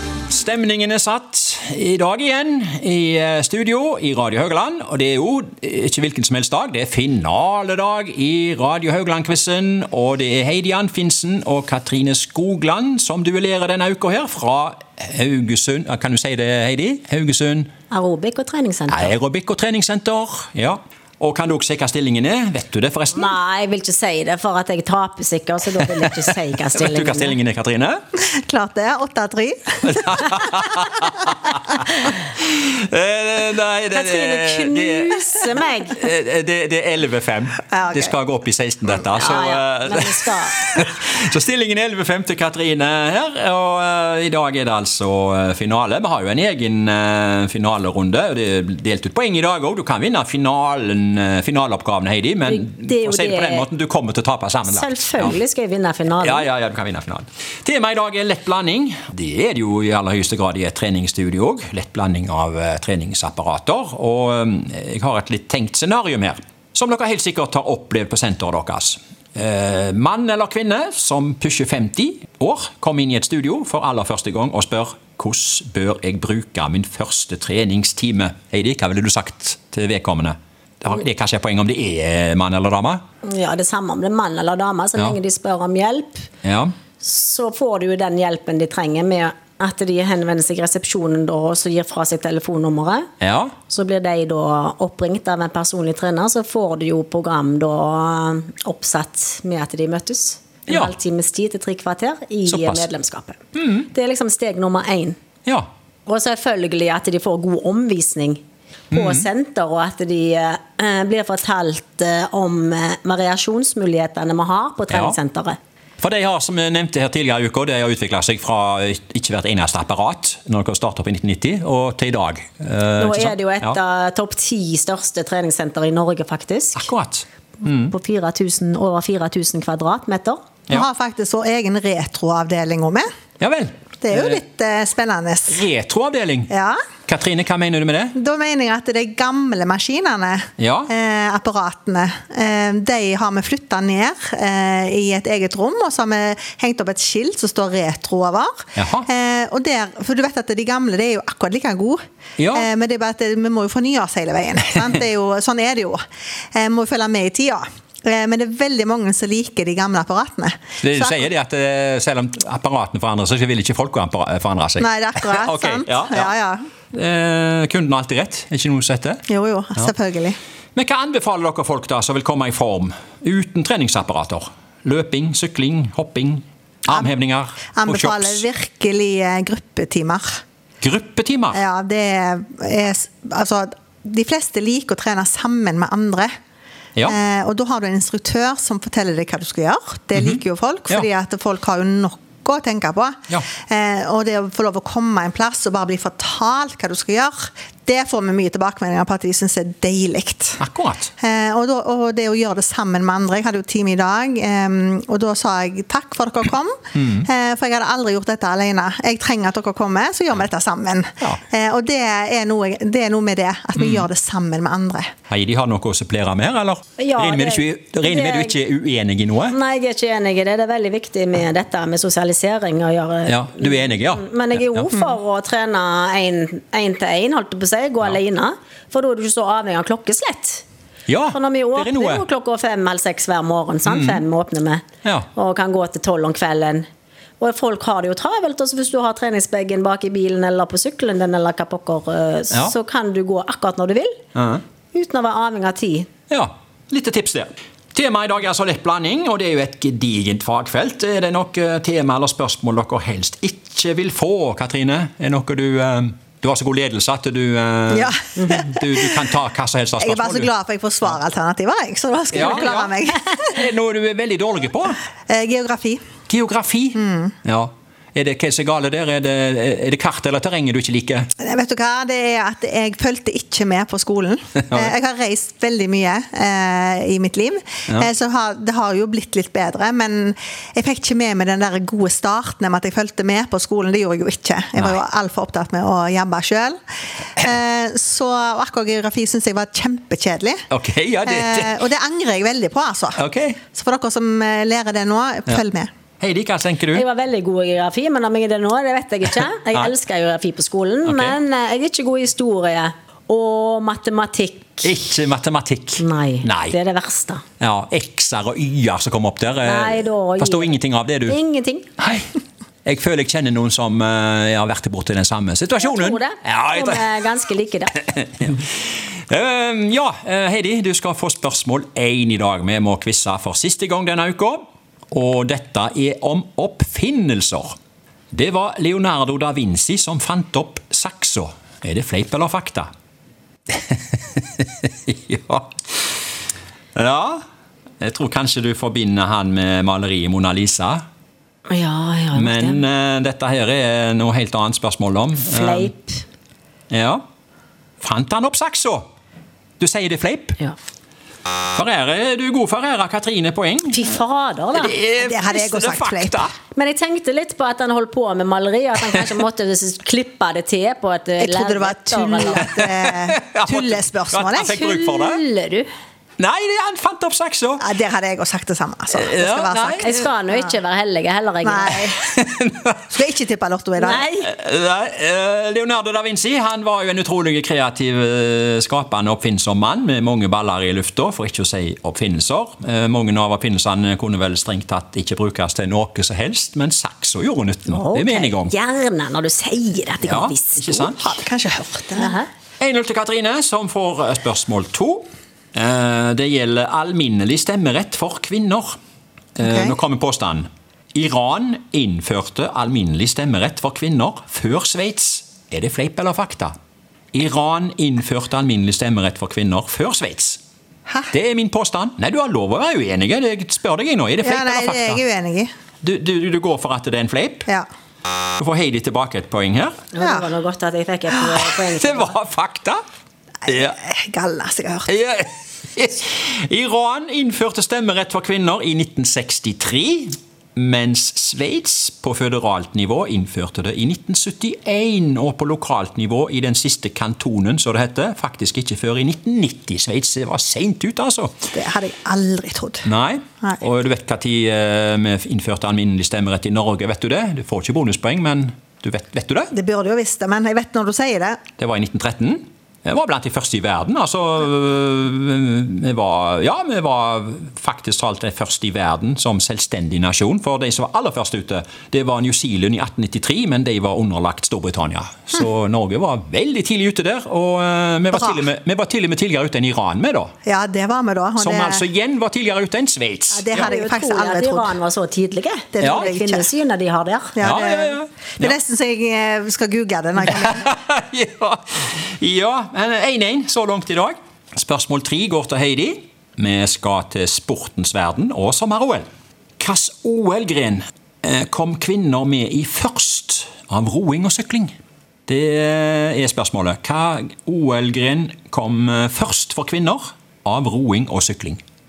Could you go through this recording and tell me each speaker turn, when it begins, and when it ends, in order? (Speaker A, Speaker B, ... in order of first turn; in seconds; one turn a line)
Speaker A: 0.3-17.7
Speaker B: 17.9-19.1
Speaker A: 18.9-23.4
Speaker B: 23.1-27.4
Speaker A: 26.7-28.0
Speaker C: 28.2-30.4
Speaker A: 29.8-55.4
Speaker B: 33.9-36.0
Speaker C: 37.7-38.1
Speaker B: 39.1-40.7
Speaker B: 52.5-53.7
Speaker B: 54.7-56.5
Speaker A: 56.2-83.0
Speaker B: 83.2-86.3
Speaker A: 86.4-86.7
Speaker B: 87.0-93.1
Speaker A: 93.2-93.5
Speaker B: 93.7-105.2
Speaker A: 102.5-102.9
Speaker A: 103.5-103.9
Speaker B: 106.1-115.6
Speaker A: 108.9-109.3
Speaker A: 114.9-115.2
Speaker A: 116.0-123.8
Speaker B: 123.0-126.9
Speaker A: 126.8-127.9
Speaker B: 127.7-130.4
Speaker C: 130.7-133.1
Speaker A: 133.4-134.4
Speaker C: 134.0-135.6
Speaker A: 135.5-136.5
Speaker C: 136.5-136.8
Speaker A: 137.1-138.2
Speaker C: 138.2-152.0
Speaker A: 140.6-140.9
Speaker A: 148.8-149.1
Speaker A: 152.4-152.7
Speaker C: 152.5-156.0
Speaker C: 156.6-161.3
Speaker A: 160.8-166.3
Speaker C: 164.8-166.6
Speaker A: 166.9-169.2
Speaker C: 169.3-170.4
Speaker A: 170.8-178.4
Speaker C: 177.8-180.4
Speaker A: 180.8-181.6
Speaker C: 181.5-186.3
Speaker C: 187.1-200.6
Speaker A: 190.2-191.1
Speaker A: 200.6-201.1
Speaker C: 201.2-215.1
Speaker A: 206.9-207.3
Speaker A: 213.8-214.1
Speaker A: 215.3-219.6
Speaker B: 217.0-218.6
Speaker B: 219.5-230.7
Speaker A: 223.3-224.9
Speaker A: 231.1-232.2
Speaker B: 231.3-236.9
Speaker A: 233.9-234.2
Speaker B: 237.4-244.2
Speaker A: 244.3-244.6
Speaker B: 244.9-246.1
Speaker A: 246.3-260.5
Speaker C: 257.9-258.9
Speaker C: 260.0-263.6
Speaker A: 262.3-265.0
Speaker C: 265.3-266.0
Speaker A: 266.3-271.3
Speaker C: 266.9-267.3
Speaker C: 271.4-286.8
Speaker C: 287.4-290.6
Speaker A: 290.7-291.8
Speaker C: 291.2-293.2
Speaker A: 293.2-293.6
Speaker C: 293.7-295.9
Speaker A: 296.2-297.1
Speaker B: 296.9-304.9
Speaker A: 301.1-301.4
Speaker A: 304.8-306.8
Speaker B: 306.0-307.4
Speaker A: 307.6-311.4
Speaker B: 309.6-311.9
Speaker A: 312.0-312.3
Speaker A: 312.9-317.1
Speaker B: 315.8-318.0
Speaker A: 318.1-318.6
Speaker A: 319.3-327.8
Speaker A: 328.3-332.9
Speaker A: 333.7-335.7
Speaker A: 337.0-337.4
Speaker A: 338.0-341.0
Speaker B: 341.7-342.8
Speaker A: 342.4-345.9
Speaker B: 345.5-346.2
Speaker A: 346.9-347.2
Speaker A: 348.0-349.1
Speaker A: 349.8-350.6
Speaker A: 351.8-354.1
Speaker B: 353.9-355.0
Speaker A: 354.8-356.5
Speaker C: 355.2-356.4
Speaker B: 356.7-362.7
Speaker C: 361.4-364.9
Speaker A: 362.6-365.4
Speaker B: 364.8-365.9
Speaker A: 366.4-367.9
Speaker C: 367.8-370.7
Speaker A: 369.1-370.3
Speaker B: 370.0-372.1
Speaker C: 371.6-372.2
Speaker A: 372.2-373.0
Speaker C: 373.1-374.2
Speaker B: 374.0-374.5
Speaker A: 374.4-388.7
Speaker B: 387.9-391.1
Speaker A: 390.2-391.3
Speaker C: 391.2-392.4
Speaker B: 392.2-392.5
Speaker A: 392.8-399.0
Speaker A: 399.6-406.7
Speaker C: 399.6-399.9
Speaker A: 407.3-410.6
Speaker C: 411.1-411.3
Speaker A: 411.3-415.2
Speaker C: 414.4-415.7
Speaker A: 416.0-417.7
Speaker A: 418.6-420.0
Speaker B: 420.1-422.4
Speaker C: 420.2-420.5
Speaker A: 421.7-423.0
Speaker C: 423.7-425.1
Speaker A: 423.7-424.0
Speaker A: 425.1-441.7
Speaker C: 441.7-443.1
Speaker A: 443.1-449.7
Speaker C: 449.7-451.6
Speaker A: 451.8-470.5
Speaker C: 468.3-468.6
Speaker C: 470.6-472.0
Speaker A: 471.6-473.9
Speaker C: 473.5-474.9
Speaker B: 473.8-477.6
Speaker C: 475.9-476.7
Speaker A: 476.0-476.3
Speaker C: 477.6-480.9
Speaker A: 477.6-478.8
Speaker A: 480.5-489.3
Speaker A: 489.8-494.9
Speaker A: 495.5-501.8